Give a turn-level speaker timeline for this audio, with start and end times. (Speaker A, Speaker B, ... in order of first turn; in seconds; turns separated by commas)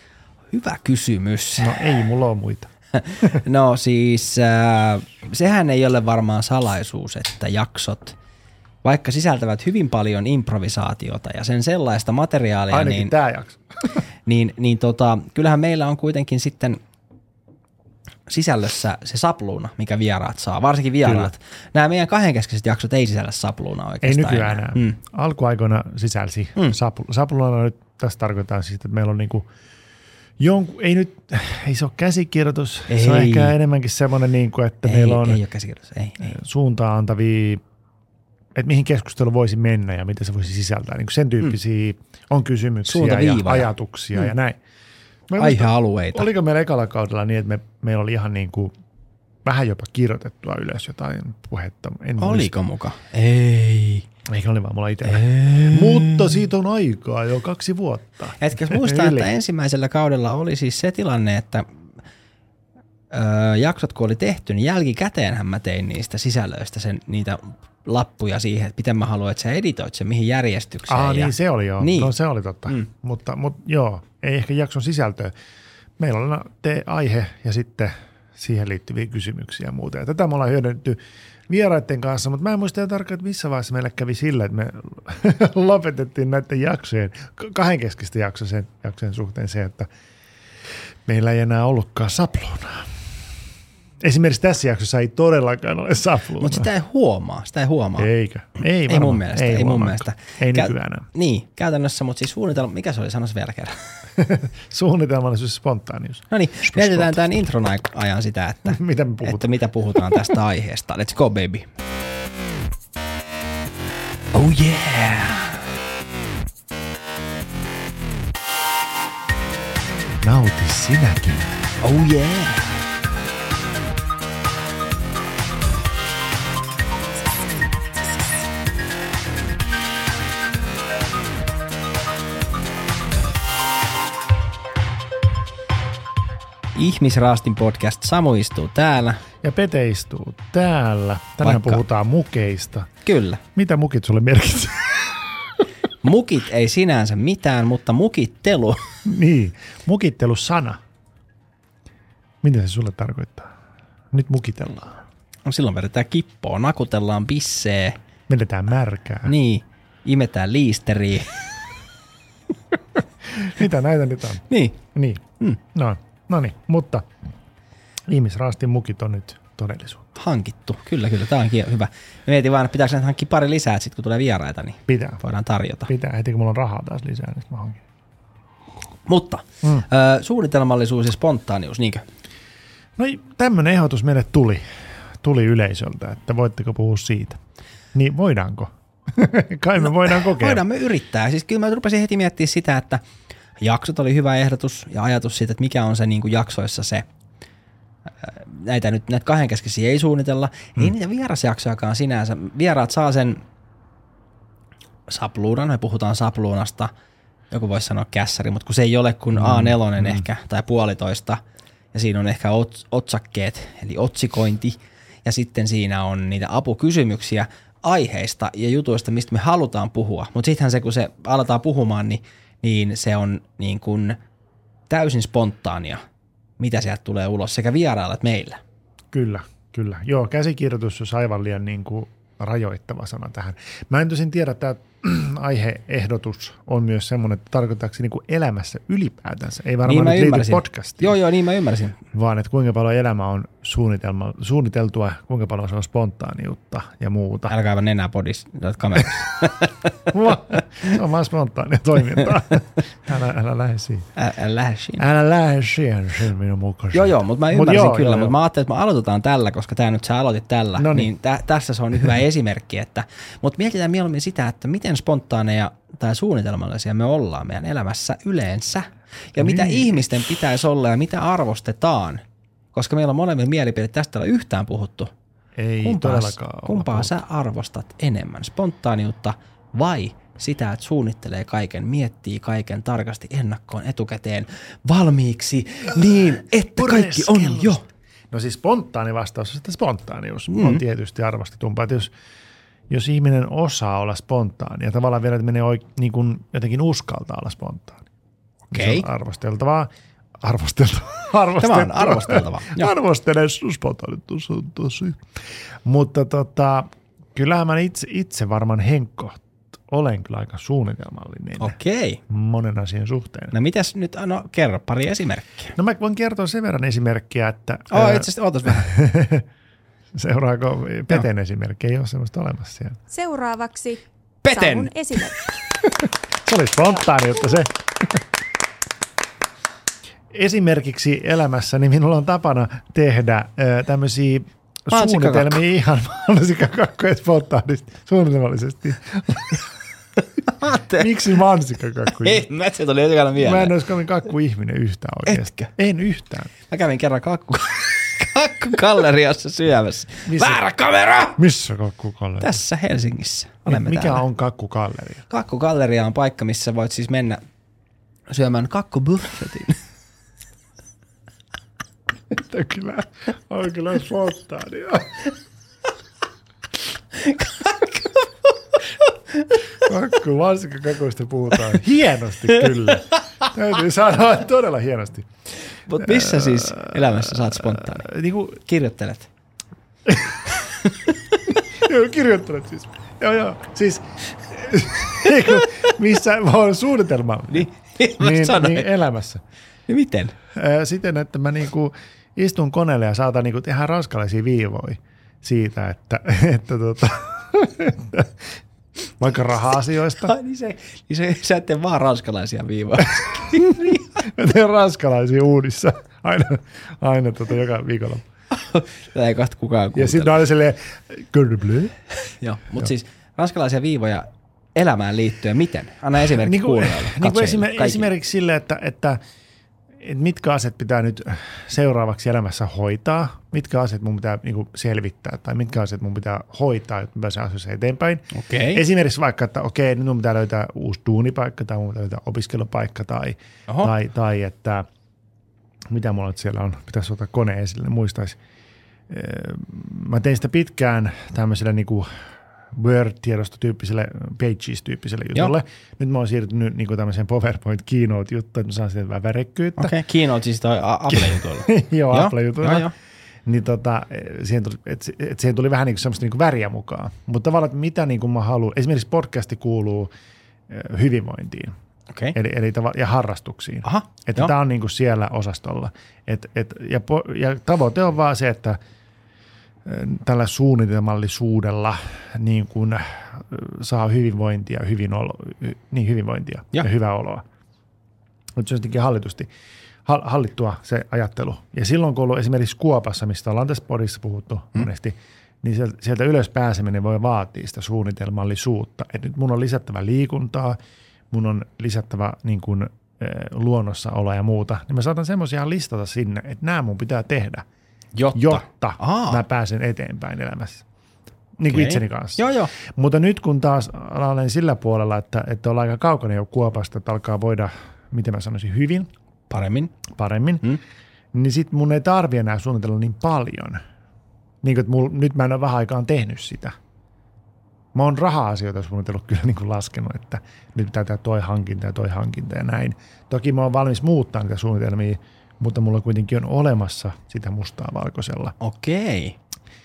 Speaker A: 0.5-1.9, Speaker B: 1.6-2.7, Speaker A: 3.0-8.2, Speaker A: 8.8-13.1, Speaker B: 12.7-13.6, Speaker A: 14.2-16.8, Speaker A: 18.3-25.0, Speaker B: 21.0-21.3, Speaker B: 24.0-29.5, Speaker B: 30.4-35.4, Speaker A: 32.9-33.5, Speaker A: 34.8-36.3, Speaker B: 36.2-37.6, Speaker B: 38.5-44.6, Speaker A: 42.9-43.7, Speaker B: 45.3-48.7, Speaker A: 45.4-46.3, Speaker B: 49.4-52.5, Speaker A: 52.2-54.1, Speaker B: 54.3-59.3, Speaker A: 55.1-56.3, Speaker A: 58.4-61.7, Speaker A: 63.1-72.1, Speaker B: 70.9-75.3, Speaker B: 76.0-89.9, Speaker B: 91.0-92.9, Speaker B: 94.0-96.7, Speaker A: 96.4-98.1, Speaker B: 98.0-101.1, Speaker A: 98.9-103.8, Speaker B: 104.2-107.3, Speaker A: 106.3-111.7, Speaker B: 108.7-109.5, Speaker B: 110.1-110.3, Speaker A: 114.3-115.6, Speaker B: 120.2-121.6, Speaker A: 121.8-122.7, Speaker A: 136.7-139.2, Speaker B: 139.4-142.9, Speaker A: 141.4-141.8, Speaker A: 143.0-143.4, Speaker B: 143.5-145.3, Speaker A: 146.0-148.8, Speaker B: 149.0-150.8, Speaker B: 152.4-153.5, Speaker B: 154.1-155.0, Speaker A: 155.4-158.0, Speaker B: 158.3-159.3, Speaker A: 159.2-161.3, Speaker B: 163.2-167.1, Speaker A: 164.5-164.8, Speaker B: 168.1-170.1, Speaker A: 170.2-175.9, Speaker B: 174.9-175.2, Speaker B: 175.9-177.8, Speaker A: 179.1-182.0, Speaker B: 183.0-187.4, Speaker B: 187.9-190.6, Speaker A: 190.1-193.0, Speaker A: 193.6-197.1, Speaker A: 198.2-203.4, Speaker A: 205.1-206.9, Speaker A: 207.5-211.4, Speaker B: 209.3-210.2, Speaker A: 211.9-224.2, Speaker A: 224.9-226.0, Speaker A: 226.6-228.6, Speaker B: 229.1-241.2, Speaker A: 239.8-241.9, Speaker B: 242.1-247.5, Speaker A: 247.5-249.7, Speaker B: 250.1-254.1, Speaker A: 254.2-255.0, Speaker B: 255.0-258.3, Speaker A: 256.9-272.2, Speaker B: 260.8-261.1, Speaker B: 269.4-270.1, Speaker A: 272.7-275.1, Speaker B: 275.6-277.2, Speaker A: 275.8-287.8, Speaker B: 286.7-292.1, Speaker A: 290.5-290.8, Speaker B: 292.9-298.1, Speaker B: 298.7-305.2, Speaker A: 298.7-299.1, Speaker A: 301.6-302.9, Speaker B: 305.8-311.8, Speaker A: 311.6-312.2, Speaker B: 312.3-313.5, Speaker A: 313.5-315.7, Speaker B: 315.8-319.4, Speaker A: 317.9-318.9, Speaker B: 320.1-323.0, Speaker C: 323.1-325.4, Speaker A: 324.4-324.9, Speaker B: 325.8-328.2, Speaker B: 330.3-339.7, Speaker A: 334.9-335.6, Speaker A: 340.5-341.1, Speaker B: 340.9-342.4, Speaker A: 342.1-343.7, Speaker B: 343.4-346.5, Speaker A: 345.2-345.7, Speaker A: 346.7-351.4, Speaker B: 350.3-350.6, Speaker B: 351.4-352.6, Speaker A: 352.4-354.2, Speaker B: 353.6-355.2, Speaker A: 355.3-357.4, Speaker A: 358.3-359.8, Speaker B: 362.3-365.3, Speaker A: 367.2-368.3, Speaker B: 369.8-375.3, Speaker A: 375.9-378.1, Speaker B: 376.0-378.6, Speaker A: 378.6-379.3, Speaker B: 380.1-380.4, Speaker B: 381.7-389.4, Speaker A: 387.5-388.9, Speaker A: 389.9-390.3, Speaker B: 390.5-398.4, Speaker B: 399.2-400.3, Speaker A: 400.2-404.1, Speaker B: 403.5-408.2, Speaker A: 408.5-410.4, Speaker B: 409.9-411.9, Speaker A: 412.3-418.1, Speaker B: 416.3-419.2, Speaker B: 420.0-434.9, Speaker A: 428.3-428.8, Speaker B: 435.9-438.4, Speaker B: 439.1-442.1, Speaker B: 442.7-449.9, Speaker A: 449.8-452.9, Speaker B: 451.1-452.9, Speaker B: 453.4-460.1, Speaker B: 460.7-461.7, Speaker B: 462.3-468.8, Speaker A: 463.8-464.5, Speaker B: 469.8-477.4, Speaker B: 478.6-479.5, Speaker B: 480.1-490.8, Speaker B: 491.3-497.6, Speaker A: 498.1-499.4, Speaker B: 498.3-500.8, Speaker B: 501.6-509.1, Speaker A: 501.7-502.7, Speaker A: 509.5-510.0, Speaker B: 510.1-510.7, Speaker B: 511.3-513.8, Speaker B: 514.6-516.8, Speaker B: 517.9-528.5, Speaker A: 528.6-529.4